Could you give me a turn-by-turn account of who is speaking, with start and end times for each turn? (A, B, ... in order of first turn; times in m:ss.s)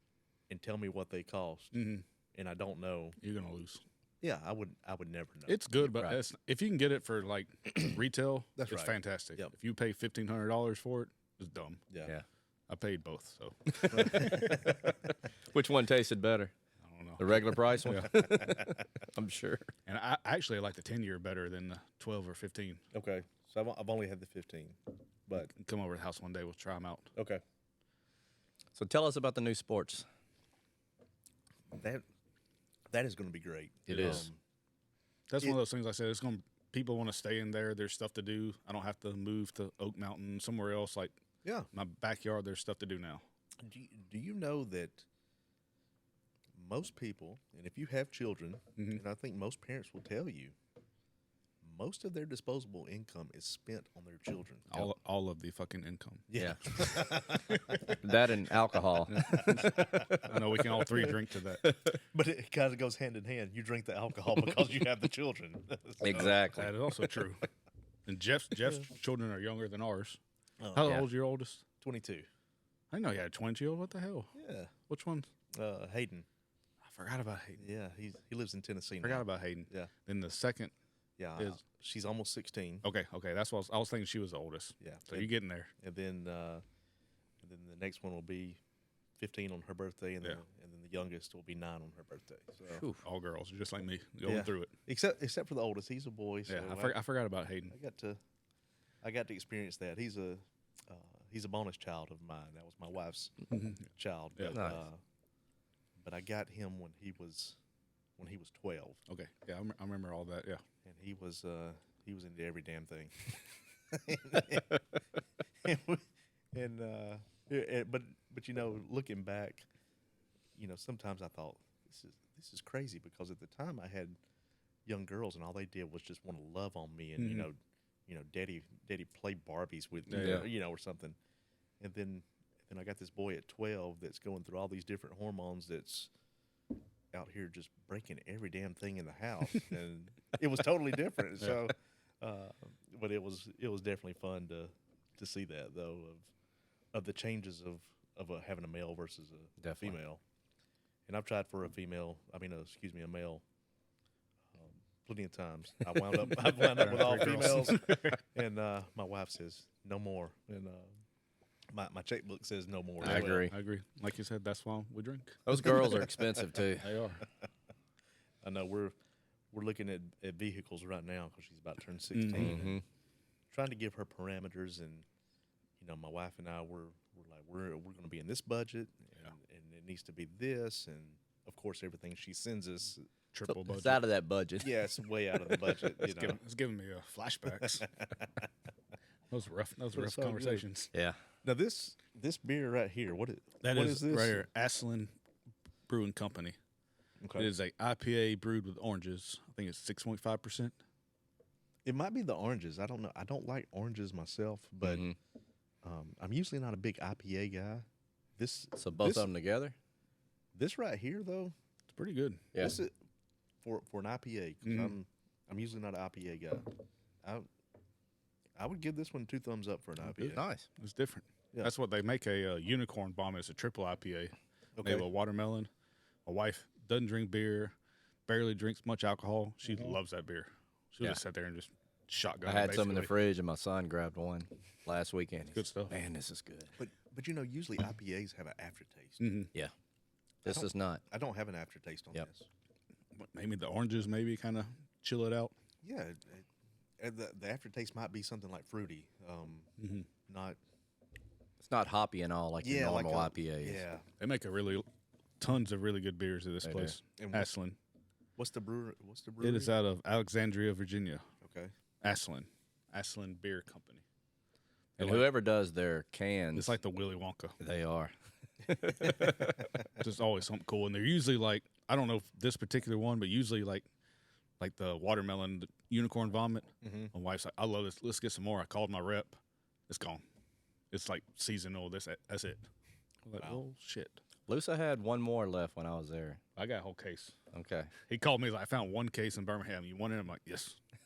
0:00.5-0:01.8 A
0:01.7-0:02.0 B
0:02.3-0:03.2 A
0:03.2-0:03.8 B
0:04.2-0:05.7 A
0:05.5-0:11.9 B
0:05.8-0:06.2 C
0:08.6-0:09.5 A
0:12.7-0:14.5 B
0:13.8-0:14.7 C
0:13.9-0:14.9 A
0:15.5-0:16.5 C
0:16.8-0:18.1 B
0:17.2-0:19.7 C
0:19.9-0:22.8 B
0:22.9-0:25.5 A
0:25.4-0:27.1 B
0:27.2-0:27.4 A
0:28.7-0:30.0 C
0:31.7-0:32.0 A
0:32.9-0:34.4 A
0:33.9-0:34.3 C
0:33.9-0:34.3 B
0:35.3-0:41.2 B
0:41.4-0:41.7 A
0:41.7-0:43.2 B
0:43.6-0:45.0 A
0:46.5-0:50.5 A
0:51.6-0:54.9 A
0:54.7-0:57.9 B
0:56.3-0:58.0 A
0:58.0-1:00.2 C
0:59.1-1:01.6 B
0:59.2-1:00.1 A
1:02.0-1:07.1 A
1:06.0-1:06.7 C
1:06.5-1:07.4 B
1:08.1-1:10.2 B
1:10.6-1:11.0 A
1:10.7-1:11.6 B
1:10.8-1:11.1 C
1:11.8-1:12.3 A
1:12.9-1:15.3 B
1:14.3-1:14.7 A
1:15.5-1:16.3 A
1:16.8-1:17.7 B
1:17.6-1:19.9 A
1:19.0-1:20.7 B
1:21.2-1:22.8 A
1:22.8-1:25.7 B
1:24.8-1:25.3 A
1:25.8-1:26.6 A
1:27.4-1:28.6 A
1:29.2-1:32.8 A
1:32.7-1:33.0 C
1:33.0-1:34.7 B
1:34.2-1:37.0 A
1:36.5-1:37.7 B
1:37.7-1:38.2 A
1:39.0-1:45.0 A
1:43.5-1:44.6 B
1:44.5-1:44.8 C
1:46.0-1:47.6 A
1:48.2-1:49.0 A
1:49.1-1:50.6 B
1:50.8-1:53.4 A
1:53.9-1:54.8 A
1:55.6-1:59.7 A
2:00.6-2:04.2 A
2:04.8-2:11.2 A
2:07.2-2:07.5 B
2:10.1-2:10.4 B
2:10.1-2:10.5 C
2:11.8-2:16.1 A
2:17.1-2:26.3 A
2:26.9-2:30.2 A
2:29.6-2:30.0 C
2:31.1-2:33.4 A
2:34.5-2:40.9 A
2:36.3-2:38.0 B
2:41.7-2:43.5 A
2:43.0-2:43.5 C
2:43.0-2:46.1 B
2:45.4-2:46.9 C
2:46.8-2:47.2 B
2:48.4-2:48.9 A
2:49.5-2:52.8 A
2:52.1-2:52.5 B
2:52.3-2:52.8 C
2:53.5-2:55.0 A
2:55.8-3:03.1 A
3:03.3-3:04.0 B
3:03.5-3:04.8 C
3:04.6-3:06.4 A
3:05.8-3:07.9 B
3:07.6-3:08.3 A
3:09.3-3:10.9 B
3:09.9-3:10.6 A
3:10.9-3:11.2 C
3:11.4-3:14.4 A
3:13.6-3:15.1 B
3:15.9-3:16.6 B
3:17.2-3:17.5 A
3:17.4-3:20.7 B
3:21.8-3:25.1 A
3:24.8-3:25.1 C
3:25.8-3:27.8 A
3:28.4-3:29.3 A
3:28.8-3:29.7 C
3:30.5-3:31.5 A
3:31.9-3:32.5 B
3:32.6-3:32.9 A
3:33.6-3:36.7 A
3:34.6-3:34.9 B
3:38.6-3:40.4 A
3:40.0-3:40.7 C
3:40.8-3:45.7 B
3:44.8-3:45.0 A
3:46.2-3:47.7 B
3:48.3-3:53.1 B
3:52.4-3:56.7 C
3:55.5-3:55.9 B
3:56.8-3:59.2 A
3:59.2-3:59.5 B
4:00.4-4:01.0 C
4:00.4-4:02.5 A
4:03.1-4:05.5 B
4:05.8-4:06.4 A
4:07.0-4:09.7 A
4:09.8-4:10.1 B
4:10.3-4:10.6 A
4:11.6-4:13.8 C
4:12.6-4:14.0 A
4:14.2-4:14.8 B
4:15.4-4:17.8 B
4:16.6-4:17.0 C
4:17.2-4:17.5 A
4:18.4-4:19.7 A
4:19.4-4:21.2 B
4:21.4-4:21.7 A
4:22.0-4:24.0 B
4:25.0-4:25.3 B
4:25.0-4:26.8 C
4:26.5-4:27.6 B
4:27.6-4:29.7 C
4:29.1-4:33.8 B
4:34.6-4:40.2 B
4:36.8-4:37.1 A
4:40.9-4:42.7 B
4:43.2-4:44.2 B
4:44.5-4:46.4 C
4:46.6-4:47.4 B
4:47.5-4:47.9 C
4:47.9-4:50.8 B